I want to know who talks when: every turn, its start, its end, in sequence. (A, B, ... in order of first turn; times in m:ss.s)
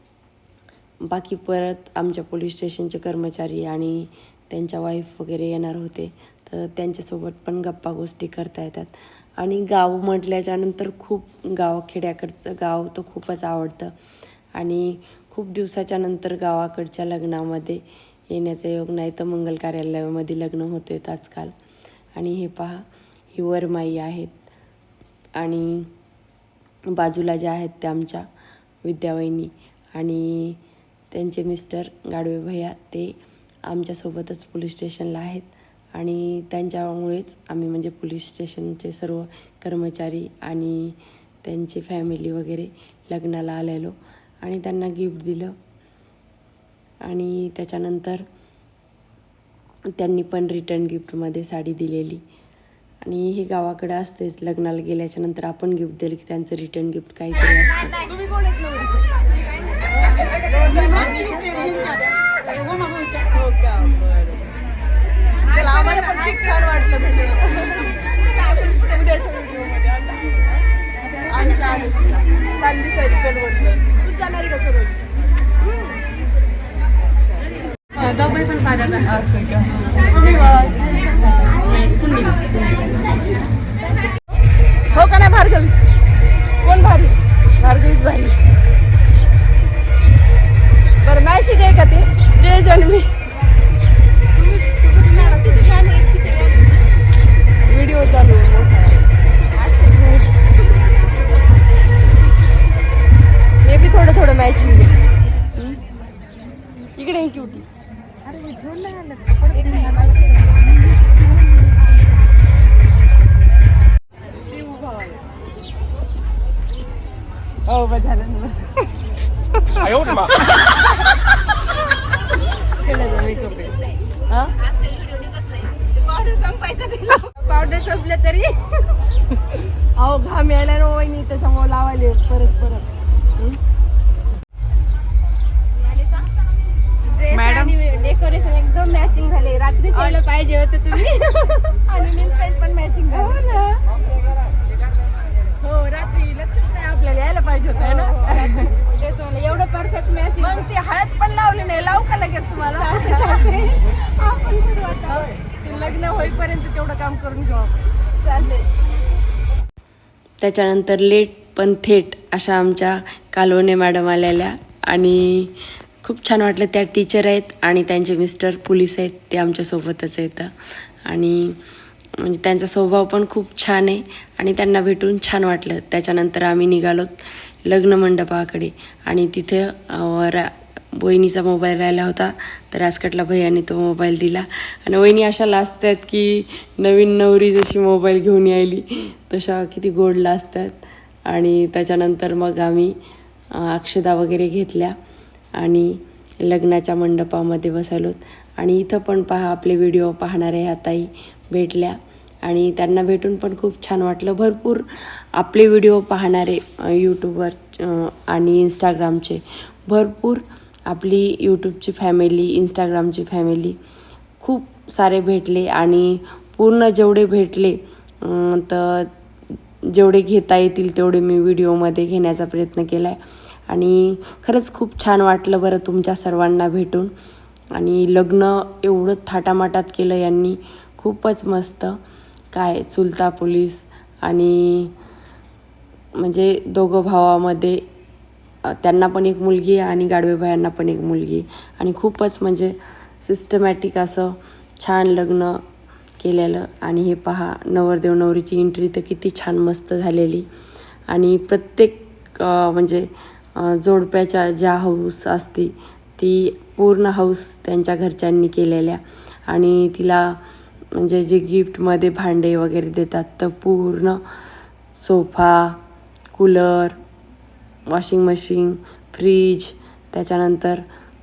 0:01.0-0:13.9 A
0:14.6-0:21.5 A
0:22.2-0:22.8 A
0:23.3-0:24.4 A
0:25.4-0:25.9 A
0:26.9-0:28.2 A
0:28.8-0:30.6 A
0:31.1-0:33.2 A
0:33.7-0:45.5 A
0:47.0-0:48.2 A
0:50.0-0:52.2 A
0:53.0-0:58.1 A
0:58.2-0:59.1 B
1:00.5-1:02.0 B
1:01.1-1:01.5 C
1:03.2-1:04.0 B
1:05.5-1:07.9 B
1:08.5-1:10.6 B
1:11.3-1:15.0 B
1:11.3-1:12.1 C
1:19.0-1:19.6 B
1:24.9-1:25.7 B
1:26.6-1:27.2 B
1:27.6-1:28.3 A
1:31.0-1:33.0 B
1:31.2-1:32.6 A
1:34.4-1:36.5 C
1:34.6-1:36.1 B
1:37.7-1:38.9 A
1:39.6-1:40.0 C
1:39.9-1:40.3 B
1:43.7-1:44.8 B
1:44.2-1:44.8 A
1:47.0-1:47.6 A
1:48.4-1:50.0 B
1:49.6-1:50.0 C
1:54.6-1:55.2 B
1:57.7-1:58.7 B
2:02.8-2:03.7 B
2:05.5-2:07.4 C
2:06.6-2:08.6 B
2:10.0-2:12.9 B
2:17.3-2:17.7 B
2:17.3-2:21.5 C
2:20.9-2:23.8 B
2:23.1-2:23.4 C
2:25.6-2:28.9 B
2:27.8-2:30.7 C
2:30.4-2:31.2 B
2:30.5-2:32.8 A
2:32.7-2:38.7 B
2:32.7-2:33.8 C
2:34.8-2:35.2 C
2:40.4-2:51.6 A
2:52.2-3:12.9 A
3:13.5-3:14.9 A
3:15.6-3:33.8 A
3:34.4-3:39.1 A
3:39.9-3:47.1 A
3:47.7-3:52.0 A
3:52.5-3:54.9 A
3:56.2-3:57.8 A
3:58.7-4:05.6 A
4:06.2-4:10.5 A
4:11.1-4:20.4 A
4:20.9-4:24.2 A
4:24.9-4:25.8 A
4:26.3-4:27.0 A
4:27.9-4:30.8 A